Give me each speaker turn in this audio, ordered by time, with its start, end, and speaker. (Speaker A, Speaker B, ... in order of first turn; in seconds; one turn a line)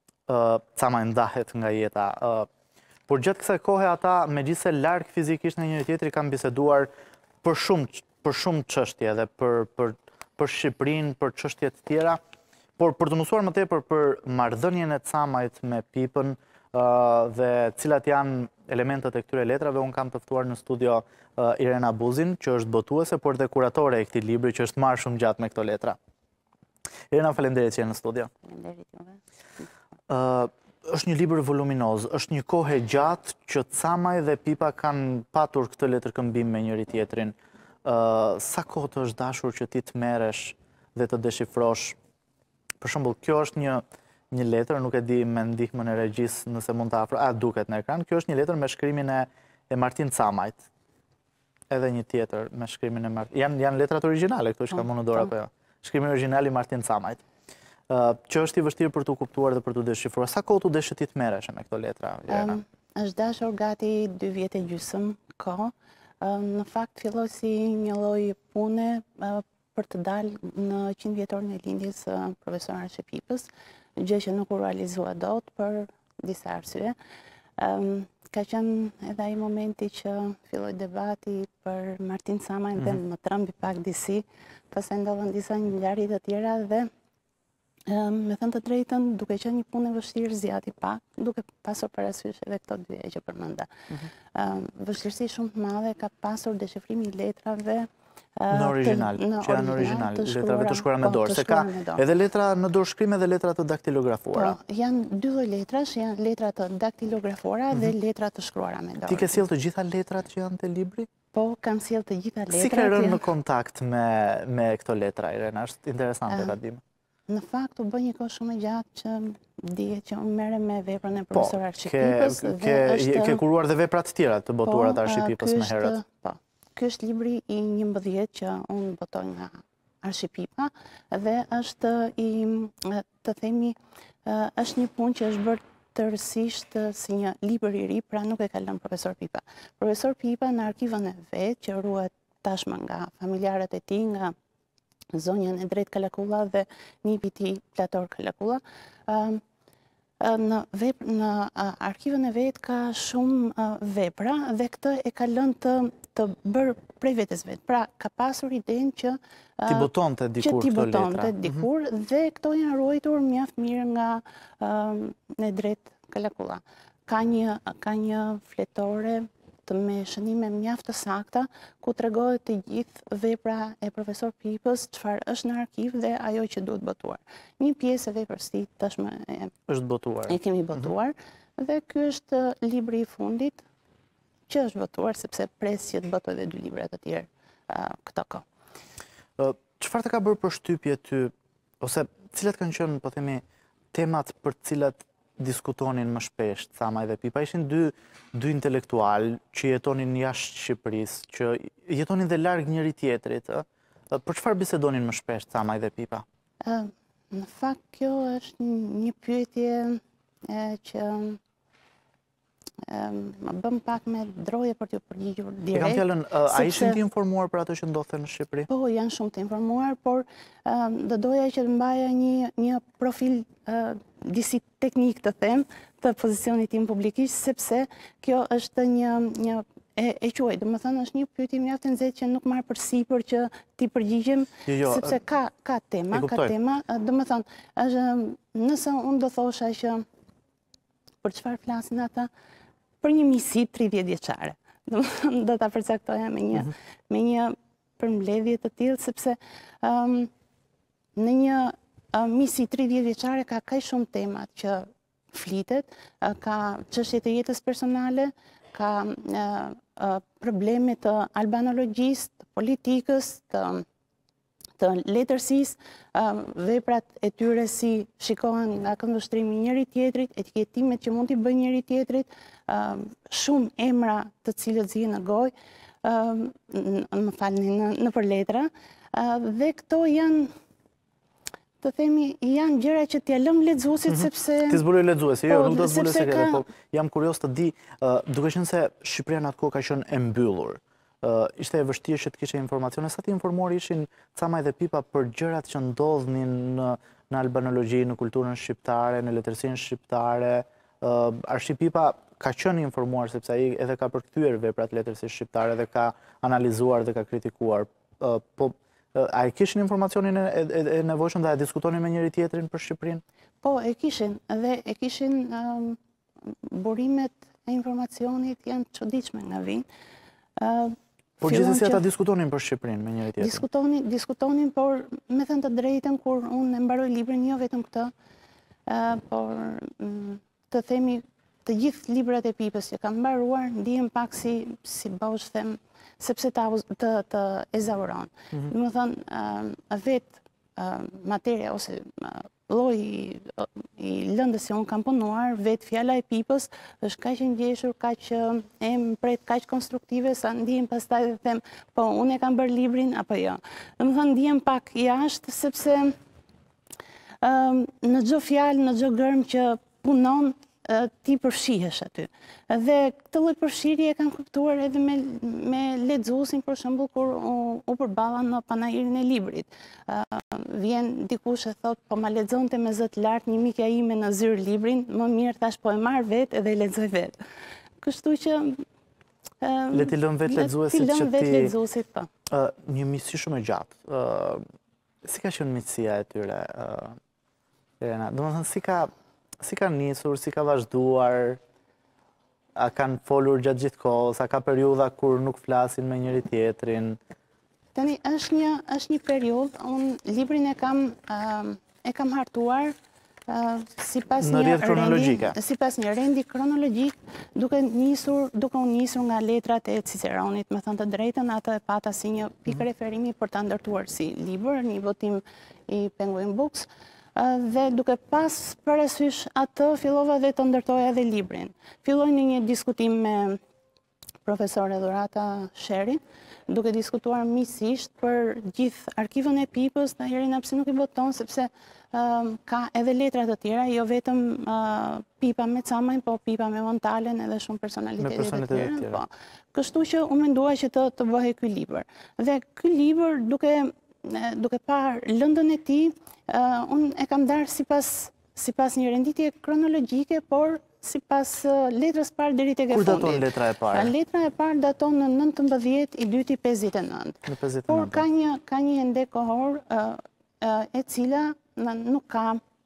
Speaker A: 0.3-2.5
Speaker A: 3.1-6.9
Speaker A: 7.4-12.2
Speaker A: 12.8-26.0
Speaker A: 27.1-28.3
Speaker B: 28.4-29.2
Speaker A: 30.1-42.0
Speaker A: 42.8-50.6
Speaker A: 51.7-57.2
Speaker A: 57.9-62.6
Speaker B: 62.3-77.0
Speaker B: 77.6-86.9
Speaker B: 87.9-93.7
Speaker B: 94.3-102.0
Speaker A: 98.5-104.6
Speaker B: 104.3-109.4
Speaker A: 109.1-111.1
Speaker B: 111.3-113.3
Speaker A: 112.5-116.8
Speaker B: 116.3-116.5
Speaker B: 117.3-123.4
Speaker A: 121.3-126.0
Speaker B: 124.7-144.3
Speaker B: 145.1-149.4
Speaker B: 150.2-159.9
Speaker A: 159.7-161.7
Speaker B: 160.4-179.5
Speaker A: 179.7-180.4
Speaker B: 180.3-183.6
Speaker B: 184.5-188.4
Speaker A: 189.4-206.2
Speaker B: 206.6-211.4
Speaker B: 212.8-217.0
Speaker A: 215.7-218.7
Speaker B: 218.7-240.0
Speaker A: 234.7-235.2
Speaker A: 236.1-236.5
Speaker B: 241.2-242.3
Speaker B: 243.0-250.3
Speaker B: 251.2-263.9
Speaker B: 264.8-280.5
Speaker B: 281.8-284.8
Speaker A: 284.1-313.2
Speaker B: 285.5-286.6
Speaker B: 313.6-319.9
Speaker B: 320.6-322.0
Speaker A: 321.4-323.6
Speaker B: 323.4-328.1
Speaker B: 328.9-356.2
Speaker B: 357.4-377.4
Speaker B: 378.0-378.8
Speaker B: 379.6-382.3
Speaker A: 379.9-381.7
Speaker A: 382.5-384.6
Speaker A: 385.2-387.2
Speaker A: 388.0-391.6
Speaker A: 392.8-397.2
Speaker B: 397.9-402.9
Speaker B: 403.5-423.6
Speaker A: 404.4-405.6
Speaker B: 424.4-462.6
Speaker A: 438.2-439.2
Speaker A: 452.9-454.1
Speaker A: 457.4-458.2